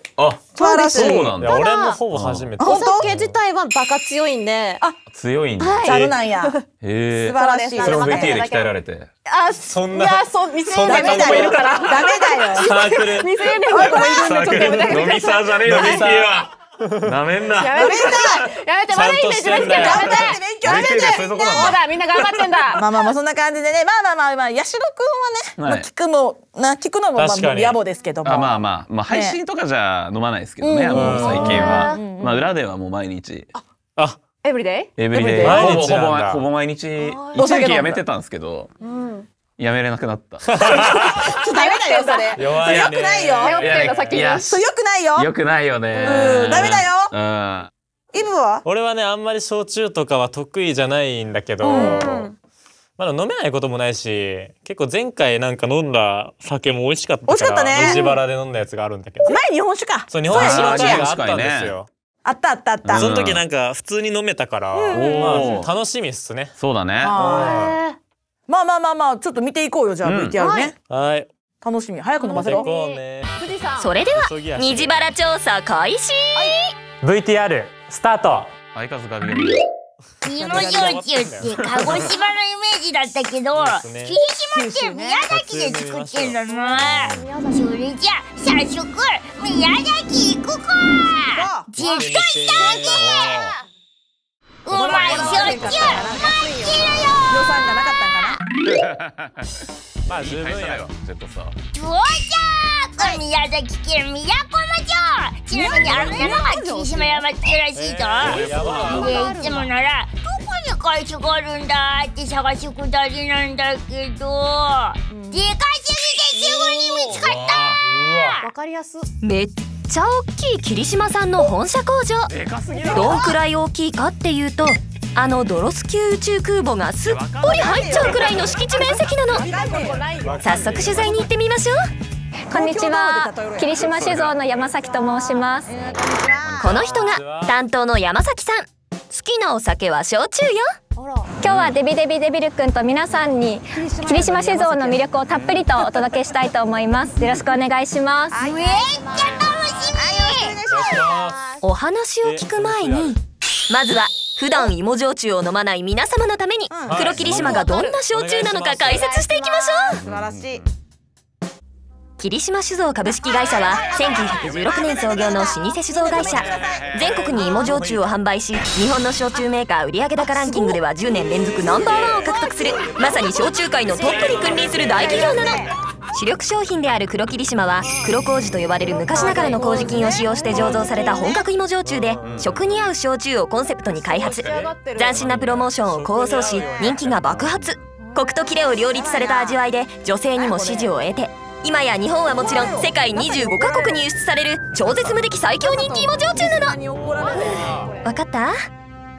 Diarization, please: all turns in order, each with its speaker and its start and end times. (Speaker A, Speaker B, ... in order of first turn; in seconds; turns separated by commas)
Speaker A: 0.2-2.5, Speaker B: 0.5-2.0, Speaker C: 0.6-1.4, Speaker D: 1.4-2.9, Speaker C: 2.6-3.1, Speaker B: 2.6-4.9, Speaker A: 3.0-3.4, Speaker A: 5.1-6.1, Speaker B: 5.6-8.7, Speaker C: 5.8-6.5, Speaker A: 6.8-9.1, Speaker C: 7.2-8.4, Speaker B: 9.3-16.1, Speaker D: 9.7-13.5, Speaker C: 10.7-12.8, Speaker A: 13.7-18.3, Speaker C: 13.7-15.0, Speaker D: 14.6-17.1, Speaker B: 17.6-20.8, Speaker C: 17.8-18.5, Speaker D: 18.9-20.3, Speaker C: 19.5-21.8, Speaker A: 20.5-22.6, Speaker B: 21.5-22.8, Speaker C: 22.7-29.4, Speaker A: 25.6-25.9, Speaker D: 27.2-27.8, Speaker A: 28.2-33.5, Speaker C: 30.6-32.5, Speaker D: 30.9-31.8, Speaker B: 31.3-32.0, Speaker D: 34.0-34.2, Speaker B: 34.4-35.0, Speaker A: 35.0-38.7, Speaker C: 35.1-35.9, Speaker D: 35.4-36.4, Speaker B: 37.0-37.5, Speaker C: 37.4-38.0, Speaker B: 38.8-39.3, Speaker A: 39.6-41.4, Speaker D: 40.4-41.3, Speaker C: 41.2-43.7, Speaker B: 41.5-44.6, Speaker D: 42.3-44.3, Speaker A: 42.6-44.6, Speaker C: 44.3-45.3, Speaker A: 45.2-47.7, Speaker B: 45.9-46.5, Speaker C: 46.0-47.1, Speaker C: 48.1-48.6, Speaker D: 48.6-52.3, Speaker C: 51.6-52.0, Speaker B: 51.6-52.4, Speaker D: 53.0-59.4, Speaker C: 57.3-58.2, Speaker B: 57.9-58.1, Speaker C: 59.3-61.1, Speaker D: 60.1-61.9, Speaker A: 60.3-61.8, Speaker C: 62.2-63.1, Speaker A: 62.9-63.4, Speaker D: 63.0-66.6, Speaker C: 64.8-65.5, Speaker A: 64.9-65.7, Speaker B: 64.9-65.6, Speaker A: 66.6-67.2, Speaker C: 67.0-67.7, Speaker D: 67.1-67.8, Speaker B: 67.2-68.0, Speaker C: 68.5-70.8, Speaker A: 70.0-70.4, Speaker B: 70.4-70.7, Speaker D: 70.9-71.3, Speaker C: 71.6-72.7, Speaker B: 72.2-74.0, Speaker D: 72.3-73.4, Speaker E: 73.8-76.7, Speaker D: 74.1-75.1, Speaker D: 77.0-78.5, Speaker A: 78.7-79.6, Speaker D: 80.2-82.1, Speaker F: 80.2-93.4, Speaker C: 80.5-81.0, Speaker A: 81.6-82.1, Speaker D: 83.5-84.2, Speaker C: 84.5-85.3, Speaker D: 85.3-87.0, Speaker B: 86.9-87.6, Speaker C: 91.3-92.1, Speaker D: 91.8-93.1, Speaker A: 93.0-93.6, Speaker F: 94.7-97.4, Speaker A: 94.7-96.1, Speaker C: 94.7-98.4, Speaker D: 94.7-95.4, Speaker A: 98.6-101.6, Speaker D: 100.1-100.9, Speaker F: 101.7-118.5, Speaker C: 105.5-107.3, Speaker A: 105.7-106.3, Speaker D: 107.8-109.2, Speaker A: 108.2-109.2, Speaker B: 108.7-109.7, Speaker C: 115.1-115.5, Speaker B: 116.3-117.0, Speaker A: 117.1-117.8, Speaker D: 117.8-118.5, Speaker B: 118.4-119.1, Speaker E: 119.2-122.3, Speaker A: 122.3-123.3, Speaker C: 122.7-123.3, Speaker E: 122.9-129.5, Speaker A: 127.0-128.8, Speaker C: 127.4-128.6, Speaker B: 128.8-130.3, Speaker C: 129.3-130.7, Speaker D: 129.4-131.2, Speaker E: 130.4-131.8, Speaker C: 132.5-134.0, Speaker G: 132.5-135.7, Speaker A: 133.8-134.8, Speaker A: 135.6-137.2, Speaker C: 135.7-136.9, Speaker E: 136.6-140.7, Speaker D: 137.0-137.6, Speaker B: 141.0-141.3, Speaker G: 141.4-148.4, Speaker A: 141.4-141.8, Speaker C: 143.8-145.1, Speaker A: 145.3-145.7, Speaker C: 148.3-148.9, Speaker B: 148.4-149.4, Speaker F: 148.4-150.6, Speaker A: 149.1-149.8, Speaker C: 149.9-151.1, Speaker D: 150.7-151.6, Speaker B: 150.9-151.6, Speaker E: 151.6-160.0, Speaker D: 152.2-153.2, Speaker C: 156.7-157.5, Speaker D: 156.9-159.3, Speaker A: 156.9-157.6, Speaker B: 157.6-158.0, Speaker B: 158.9-159.7, Speaker C: 159.3-160.6, Speaker A: 160.0-160.7, Speaker E: 162.2-196.8, Speaker C: 163.2-167.7, Speaker B: 163.2-164.4, Speaker A: 164.4-165.3, Speaker A: 166.0-167.9, Speaker D: 167.4-168.1, Speaker C: 170.2-170.8, Speaker D: 171.7-175.7, Speaker C: 172.1-173.1, Speaker B: 172.2-175.3, Speaker C: 174.9-175.7, Speaker B: 178.8-181.4, Speaker C: 179.1-181.4, Speaker D: 181.8-182.6, Speaker A: 182.2-182.7, Speaker B: 183.9-185.3, Speaker A: 184.2-185.7, Speaker D: 185.2-187.3, Speaker C: 186.3-186.8, Speaker A: 186.9-187.7, Speaker B: 188.0-189.4, Speaker C: 188.8-189.6, Speaker C: 190.4-191.0, Speaker C: 192.4-193.0, Speaker B: 192.5-194.0, Speaker C: 195.6-197.9, Speaker B: 195.7-196.1, Speaker D: 196.3-198.0, Speaker B: 197.2-198.2, Speaker E: 198.0-198.6